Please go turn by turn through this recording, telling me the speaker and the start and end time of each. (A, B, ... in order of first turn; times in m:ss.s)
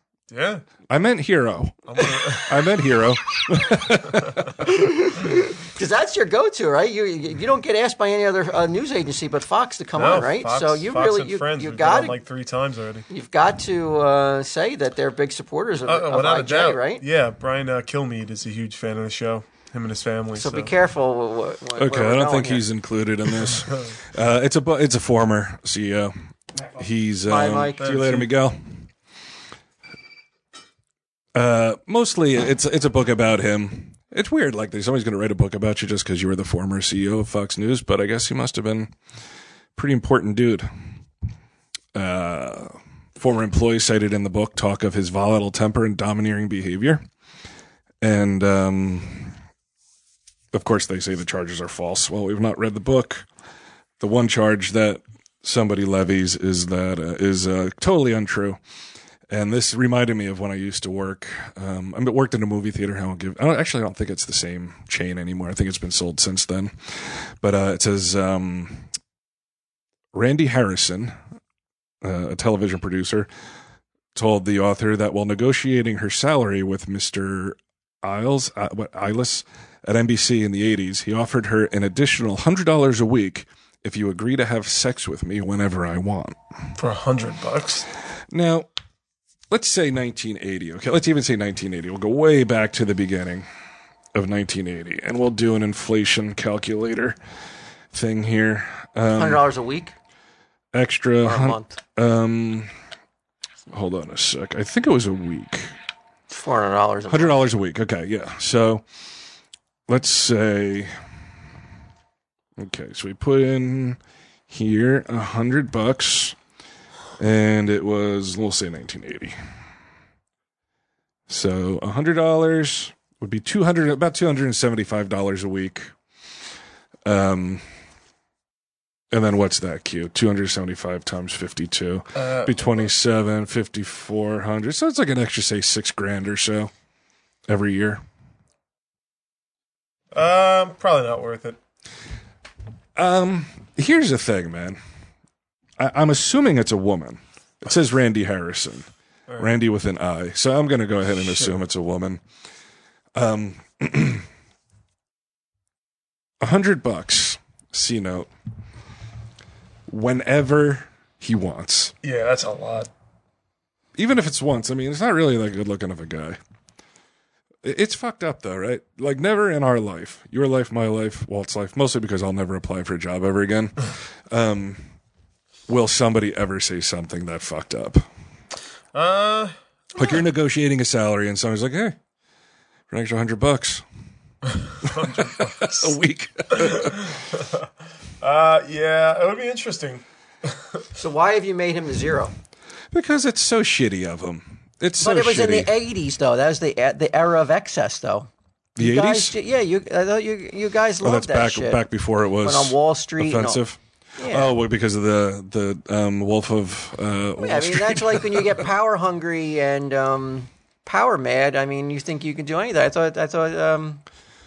0:00.3-0:00.6 A
0:00.9-0:04.5 B
0:01.9-0:02.5 A
0:04.6-0:12.2 C
0:09.9-0:13.0 A
0:13.1-0:17.0 C
0:15.8-0:20.7 A
0:20.4-0:22.6 C
0:21.8-0:26.1 B
0:26.7-0:28.7 B
0:27.2-0:27.9 C
0:27.8-0:28.3 A
0:31.3-0:38.9 B
0:39.8-0:40.7 B
0:41.9-0:47.0 B
0:48.0-0:49.3 B
0:50.5-0:53.2 B
0:54.0-0:58.6 B
0:59.3-1:08.8 B
1:10.1-1:11.1 B
1:12.0-1:13.3 B
1:14.1-1:26.4 B
1:26.8-1:27.9 A
1:28.3-1:28.7 B
1:29.5-1:33.4 B
1:34.1-1:37.2 B
1:37.9-1:39.4 B
1:39.1-1:39.9 C
1:40.7-1:42.7 B
1:41.2-1:41.7 C
1:43.7-1:45.7 B
1:46.3-1:47.4 C
1:47.1-1:48.8 B
1:49.9-1:50.9 B
1:52.6-1:54.0 B
1:54.5-1:56.4 B
1:57.2-1:59.3 B
2:01.3-2:05.9 B
2:07.0-2:07.6 B
2:09.1-2:16.7 B
2:12.2-2:12.9 A
2:17.5-2:18.0 B
2:20.1-2:21.6 A
2:23.0-2:24.8 B
2:25.8-2:28.9 B
2:29.4-2:32.2 B
2:33.1-2:34.2 B
2:36.4-2:38.3 B
2:39.9-2:41.9 B
2:42.0-2:42.9 A
2:44.0-2:46.4 B
2:47.6-2:54.8 B
2:55.7-2:58.0 B
2:58.9-3:00.2 A
3:00.0-3:02.0 B
3:02.9-3:03.8 B
3:04.8-3:05.9 A
3:04.8-3:07.0 B
3:06.5-3:07.7 A
3:08.2-3:10.8 A
3:11.0-3:12.3 C
3:12.9-3:15.7 B
3:15.0-3:21.8 C
3:18.8-3:19.3 B
3:21.0-3:23.8 B
3:22.4-3:23.6 C
3:24.2-3:24.5 C
3:24.3-3:28.5 B
3:27.4-3:34.0 C